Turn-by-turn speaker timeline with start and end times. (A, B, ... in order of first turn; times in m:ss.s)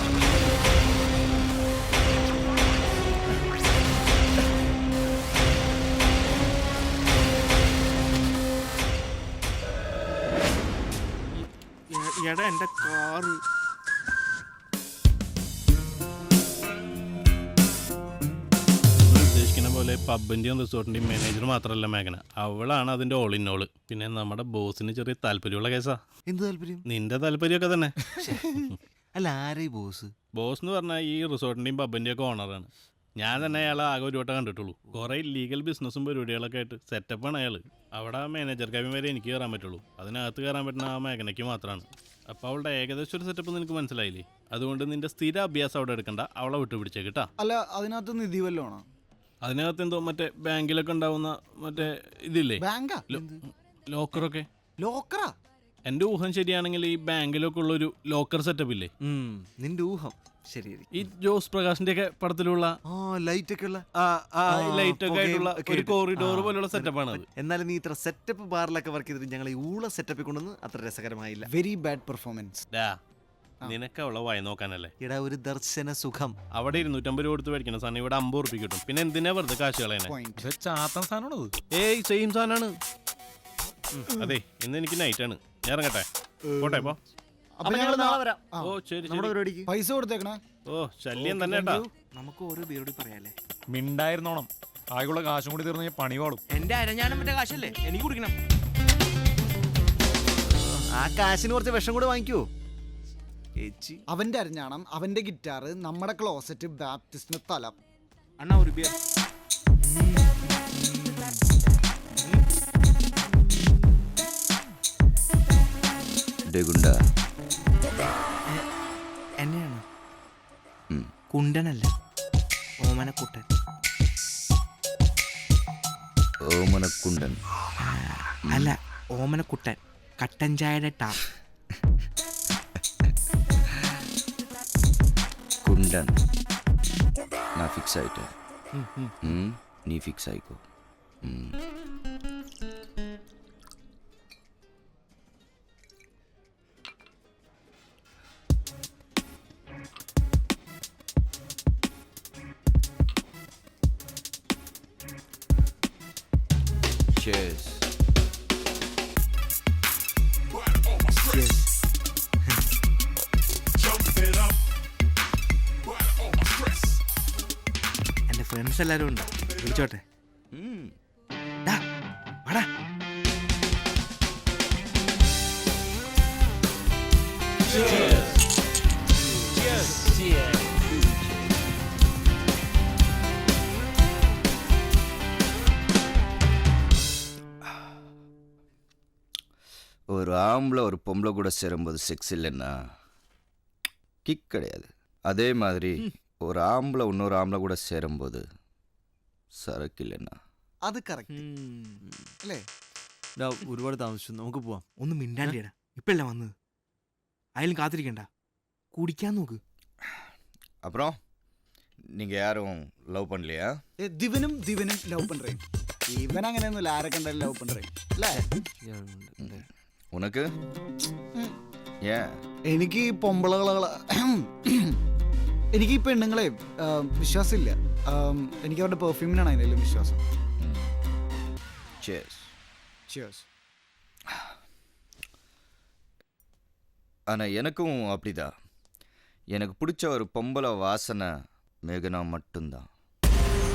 0:11.9-0:13.4 A
0:19.1-0:26.0 B
0:26.3-0:26.8 C
0:26.9-0:28.7 B
0:28.2-0:30.1 C
0:30.4-0:47.3 B
0:47.4-0:48.8 D
0:49.4-0:53.2 B
0:52.6-0:53.1 D
0:53.1-0:53.4 C
0:53.9-0:54.5 B
0:54.8-0:55.3 D
0:55.9-0:58.9 B
0:59.0-1:00.9 C
1:00.9-1:02.7 B
1:02.9-1:11.5 C
1:04.5-1:07.2 B
1:11.5-1:12.6 D
1:13.6-1:14.9 B
1:15.0-1:16.4 C
1:16.5-1:20.1 B
1:20.1-1:20.4 D
1:20.4-1:21.5 E
1:21.8-1:22.7 B
1:23.9-1:26.0 B
1:26.5-1:26.9 D
1:26.6-1:27.0 B
1:27.6-1:28.8 D
1:27.6-1:28.4 C
1:28.6-1:29.4 B
1:29.0-1:29.7 C
1:29.7-1:30.4 D
1:30.7-1:31.9 B
1:31.2-1:31.9 D
1:32.2-1:33.4 A
1:33.7-1:36.4 E
1:36.5-1:38.2 A
1:40.5-1:42.5 C
1:43.6-1:43.9 C
1:44.1-1:47.8 D
1:48.4-1:48.9 A
1:49.9-1:50.4 C
1:56.5-1:57.0 F
1:59.4-1:59.8 A
2:01.3-2:01.9 A
2:02.8-2:03.5 A
2:06.5-2:07.4 F
2:07.8-2:11.2 A
2:15.6-2:16.2 F
2:17.6-2:18.3 F
2:18.8-2:19.1 A
2:19.2-2:20.6 F
2:21.2-2:21.6 F
2:37.1-2:37.9 F
2:41.2-2:41.7 A
2:48.3-2:50.0 A
2:50.5-2:50.9 F
2:57.8-2:58.3 F
2:59.7-3:01.5 F
3:10.1-3:12.9 F
3:14.2-3:18.4 F
3:19.6-3:20.4 F
3:20.8-3:21.4 D
3:21.3-3:22.0 A
3:23.4-3:24.8 C
3:25.0-3:26.5 A
3:27.6-3:28.3 A
3:28.9-3:29.6 A
3:30.8-3:31.2 F
3:32.1-3:33.8 F
3:34.0-3:38.4 D
3:38.4-3:39.6 C
3:39.4-3:40.5 F
3:42.0-3:42.4 F
3:42.7-3:45.0 D
3:45.7-3:50.2 D
3:50.6-3:50.9 F
3:52.0-3:52.5 F
3:53.1-3:53.4 D
3:57.3-3:58.5 F
3:59.5-4:01.3 F
4:01.8-4:02.9 F